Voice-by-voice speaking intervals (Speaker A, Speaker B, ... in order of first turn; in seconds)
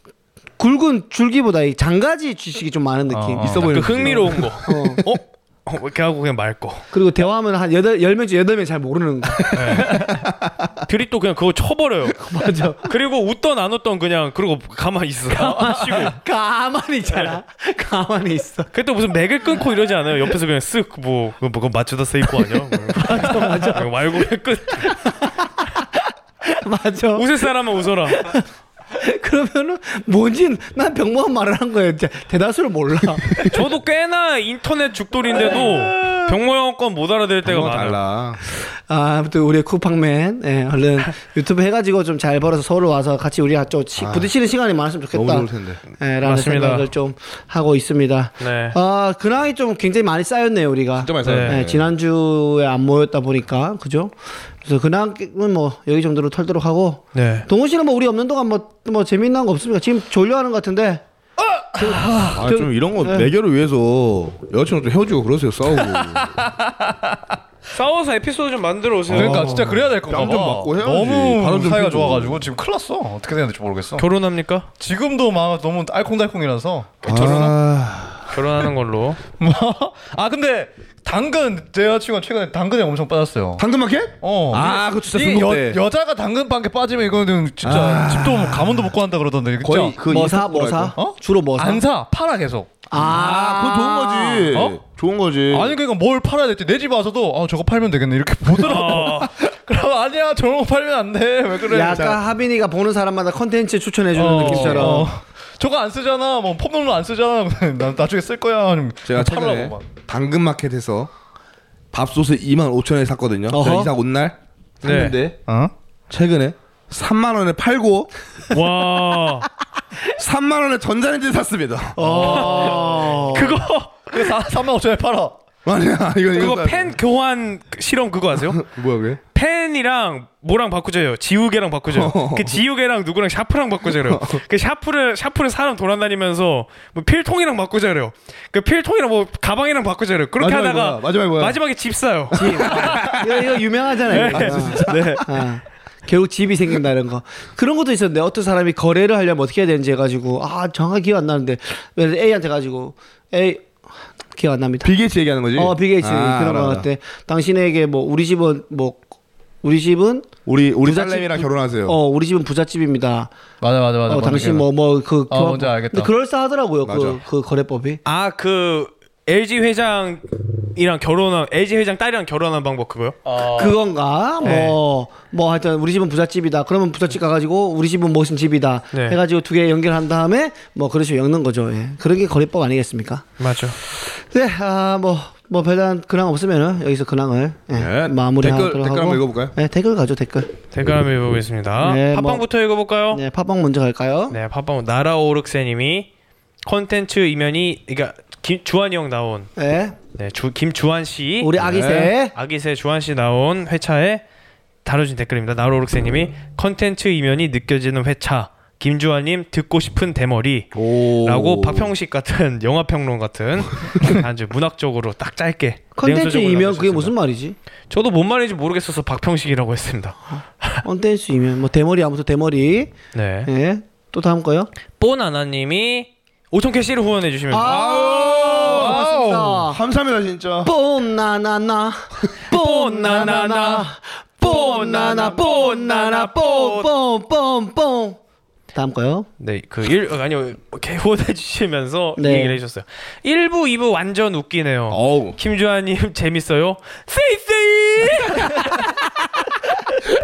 Speaker A: 0.6-5.0, 6.9-10.7, 12.1-12.9, 15.8-18.7, 22.9-24.1, 24.8-27.5, 28.1-33.5, 38.5-61.0, 61.7-63.3, 90.1-91.8, 92.9-94.5, 101.7-105.1, 113.5-113.9, 122.0-123.6, 142.3-153.7, 154.3-154.9, 155.5-159.1, 159.6-160.3, 160.8-163.3, 164.1-168.0, 173.5-183.2, 183.8-190.5, 191.8-192.4, 193.1-194.3, 199.6-199.9, 201.4-202.3, 215.9-217.6, 220.8-222.9, 223.4-224.7, 227.5-229.8, 230.6-238.2, 238.7-239.3, 242.2-242.6
Speaker B: 3.1-4.1, 9.6-10.1, 61.8-62.4, 65.7-67.4, 69.1-74.0, 74.8-77.5, 79.4-83.6, 84.2-90.0, 90.9-92.7, 94.5-94.8, 95.5-102.2, 104.1-109.8, 115.5-115.7, 122.0-123.4, 124.1-125.3, 144.3-144.9, 163.6-164.7, 165.3-166.1, 173.3-173.7, 228.8-229.6
Speaker C: 3.4-4.6, 37.4-38.4, 44.0-44.3, 45.1-45.8, 51.0-51.9, 62.2-66.4, 69.1-72.5, 77.0-78.4, 83.6-85.8, 87.6-88.9, 89.6-90.9, 92.9-95.7, 104.5-104.9, 109.0-111.1, 111.9-115.4, 116.1-118.1, 120.1-122.3, 125.6-127.0, 128.5-129.2, 131.9-132.6, 133.9-134.4, 140.4-141.6, 142.3-143.5, 144.2-145.2, 154.8-156.9, 160.4-161.9, 166.8-167.2, 187.8-189.5, 201.6-202.1, 210.7-211.9, 227.6-230.7, 244.9-245.4
Speaker D: 3.6-6.9, 9.5-10.1, 10.8-12.2, 12.8-16.2, 18.7-25.0, 27.1-28.2, 33.5-38.0, 46.2-46.9, 48.4-48.8, 51.2-51.6, 57.1-57.5, 67.7-69.8, 74.0-74.7, 77.0-77.5, 78.3-79.2, 98.5-99.3, 114.8-115.2, 118.5-119.5, 122.2-122.8, 123.3-124.4, 126.3-128.6, 129.3-143.1, 144.1-145.3, 168.0-173.2, 174.4-174.8, 178.9-179.2, 183.4-183.8, 190.7-193.2, 194.3-196.1, 196.6-199.5, 200.2-201.5, 202.3-204.2, 204.8-217.1, 217.9-220.8, 223.1-223.5, 225.0-227.8, 232.5-236.9, 239.4-248.9